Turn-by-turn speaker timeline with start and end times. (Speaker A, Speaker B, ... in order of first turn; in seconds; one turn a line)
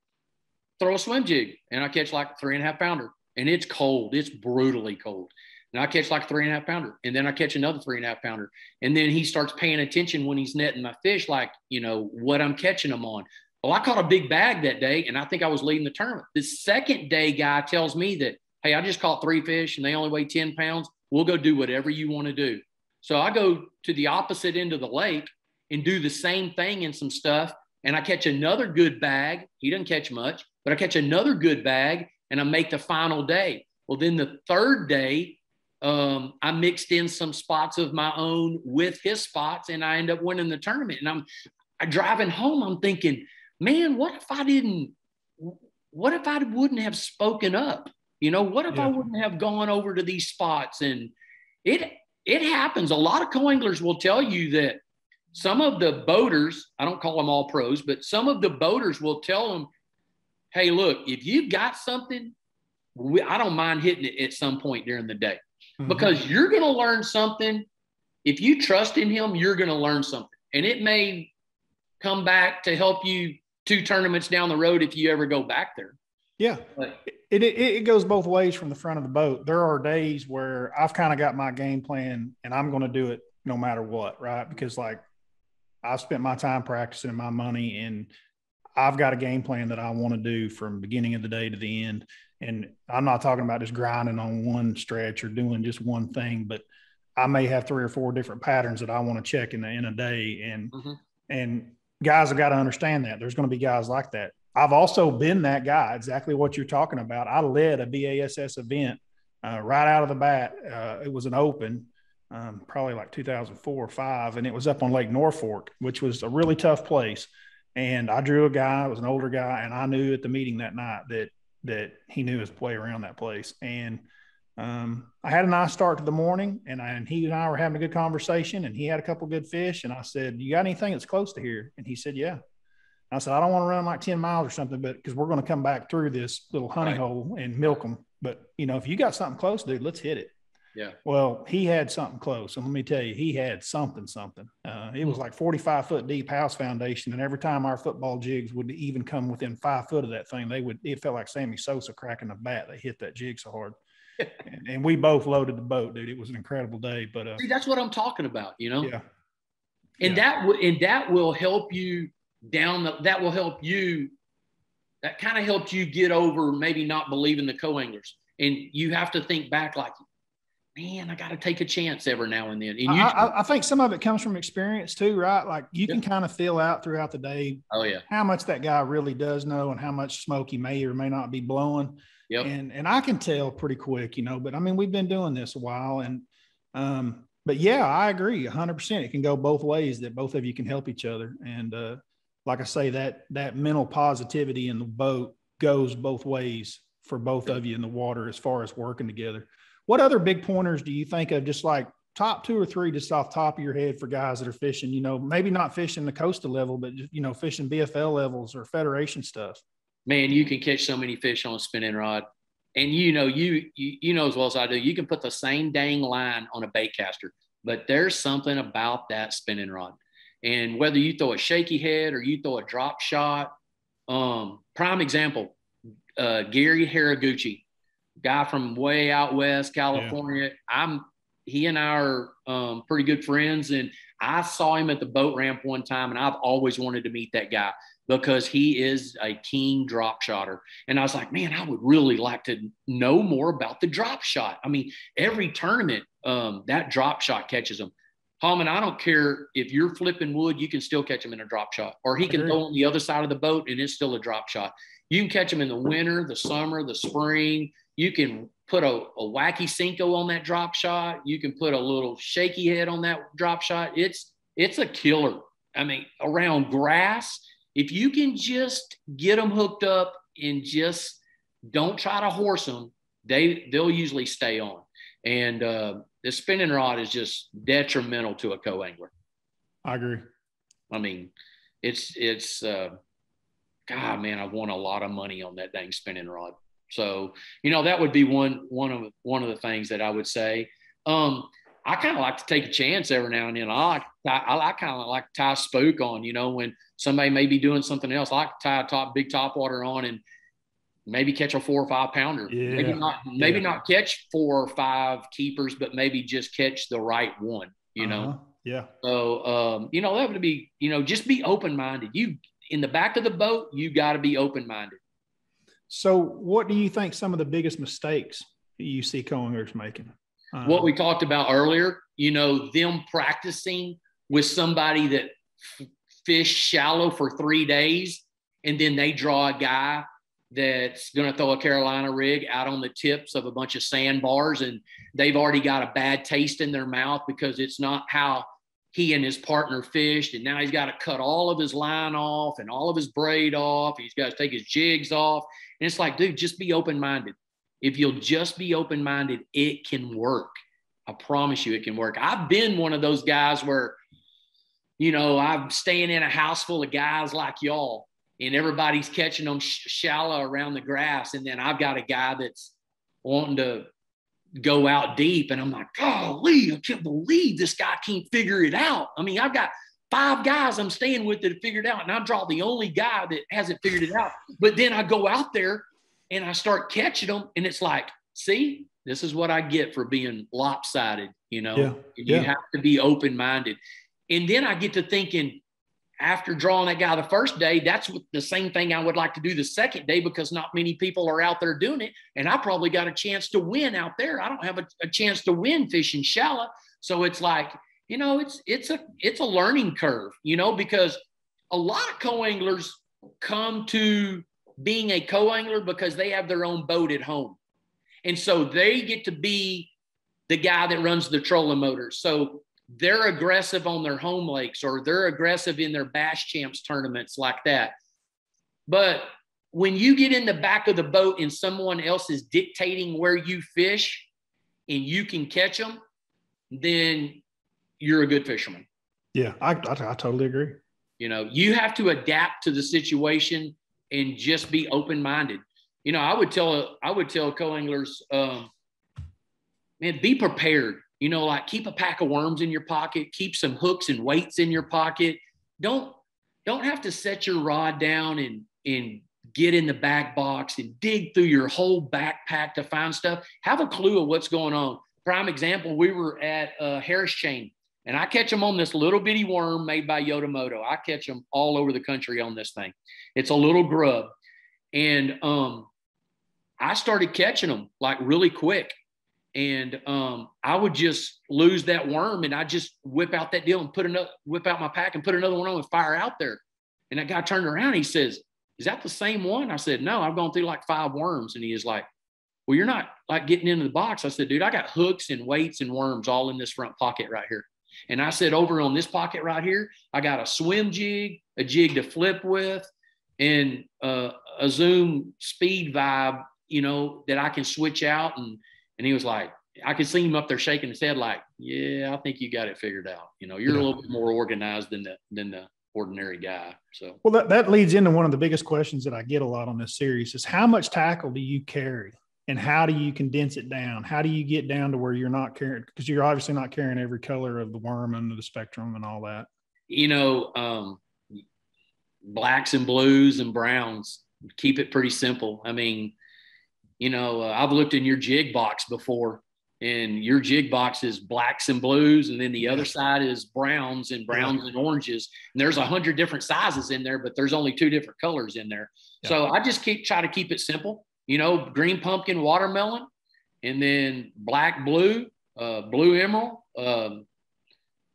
Speaker A: 0.8-41.3
Speaker A: 41.8-51.1
Speaker A: 51.6-54.8
Speaker A: 55.3-59.7
Speaker A: 60.5-62.3
Speaker A: 63.0-67.7
Speaker B: 65.8-66.1
Speaker A: 68.2-71.3
Speaker A: 72.0-76.0
Speaker B: 76.4-85.0
Speaker B: 85.8-88.1
Speaker B: 88.8-96.6
Speaker B: 97.2-100.7
Speaker A: 100.7-101.0
Speaker B: 101.3-124.0
Speaker B: 124.6-132.4
Speaker B: 133.1-140.3
Speaker B: 141.1-153.8
Speaker B: 154.4-157.4
Speaker A: 157.4-158.9
Speaker A: 160.0-164.1
Speaker A: 165.0-169.9
Speaker A: 170.8-173.3
Speaker B: 172.9-209.6
Speaker A: 177.7-178.0
Speaker A: 210.1-223.5
Speaker A: 224.1-225.6
Speaker A: 226.2-227.6
Speaker A: 228.2-271.2
Speaker B: 252.3-252.6
Speaker A: 271.7-279.1
Speaker B: 279.9-280.3
Speaker A: 280.9-281.3
Speaker A: 281.8-283.0
Speaker A: 283.9-300.2
Speaker A: 301.1-308.3
Speaker B: 302.5-303.7
Speaker B: 308.0-308.9
Speaker A: 309.0-315.0
Speaker B: 315.9-320.9
Speaker A: 320.6-350.5
Speaker A: 351.1-354.0
Speaker A: 355.0-363.9
Speaker A: 364.6-383.8
Speaker B: 381.8-382.5
Speaker A: 384.3-385.6
Speaker A: 386.2-401.2
Speaker A: 401.7-407.6
Speaker A: 408.2-409.9
Speaker A: 410.5-417.9
Speaker A: 418.9-424.3
Speaker A: 424.9-426.0
Speaker A: 426.7-427.4
Speaker A: 428.0-428.9
Speaker B: 429.3-430.8
Speaker A: 431.2-438.7
Speaker A: 440.0-464.3
Speaker A: 464.9-465.9
Speaker A: 466.8-468.9
Speaker A: 469.6-482.1
Speaker A: 482.7-492.9
Speaker A: 493.4-507.2
Speaker B: 507.2-519.5
Speaker A: 519.9-521.0
Speaker A: 522.2-526.1
Speaker A: 527.0-543.1
Speaker B: 534.3-534.6
Speaker A: 543.6-547.3